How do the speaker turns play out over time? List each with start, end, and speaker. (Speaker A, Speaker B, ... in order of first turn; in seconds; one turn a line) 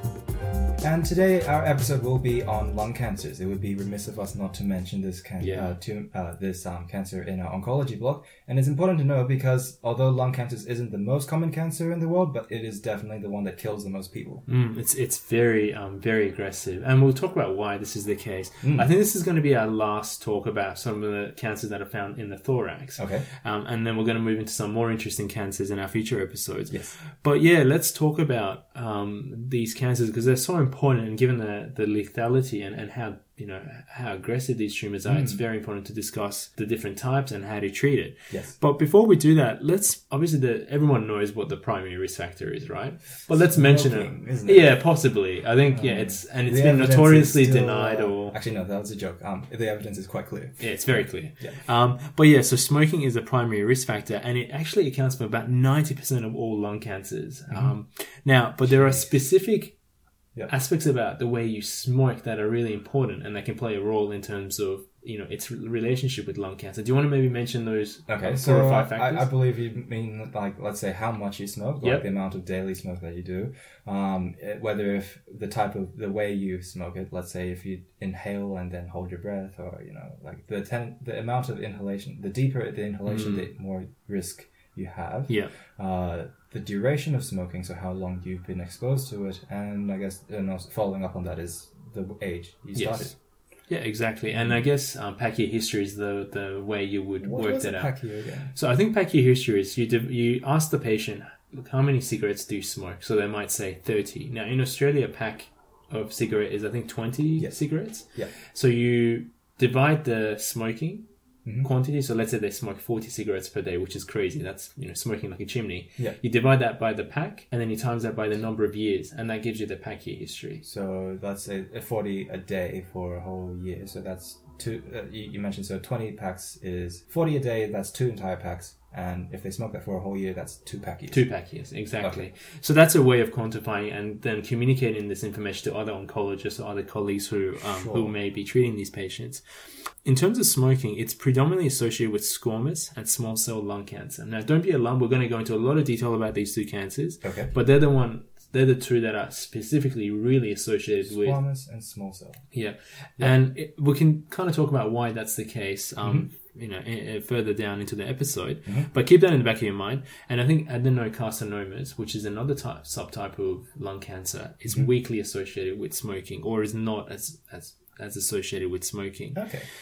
Speaker A: 0.8-14.4
Speaker B: 5.4-5.7
Speaker B: 14.5-48.4
Speaker A: 18.6-18.9
Speaker A: 23.0-23.2
Speaker A: 35.1-35.4
Speaker A: 38.3-38.5
Speaker A: 43.3-44.7
Speaker A: 45.7-51.6
Speaker B: 50.6-59.8
Speaker A: 57.5-57.8
Speaker A: 58.7-59.1
Speaker B: 60.5-69.3
Speaker A: 68.1-93.2
Speaker B: 83.1-83.5
Speaker B: 92.8-93.1
Speaker B: 93.7-97.9
Speaker A: 94.3-94.6
Speaker A: 97.2-98.5
Speaker B: 98.5-111.1
Speaker B: 111.6-120.6
Speaker A: 120.6-131.3
Speaker B: 131.1-139.4
Speaker A: 132.0-132.3
Speaker A: 137.6-138.1
Speaker B: 140.1-151.4
Speaker A: 147.2-147.5
Speaker A: 151.1-152.4
Speaker B: 152.5-169.4
Speaker A: 156.0-156.3
Speaker A: 169.3-169.7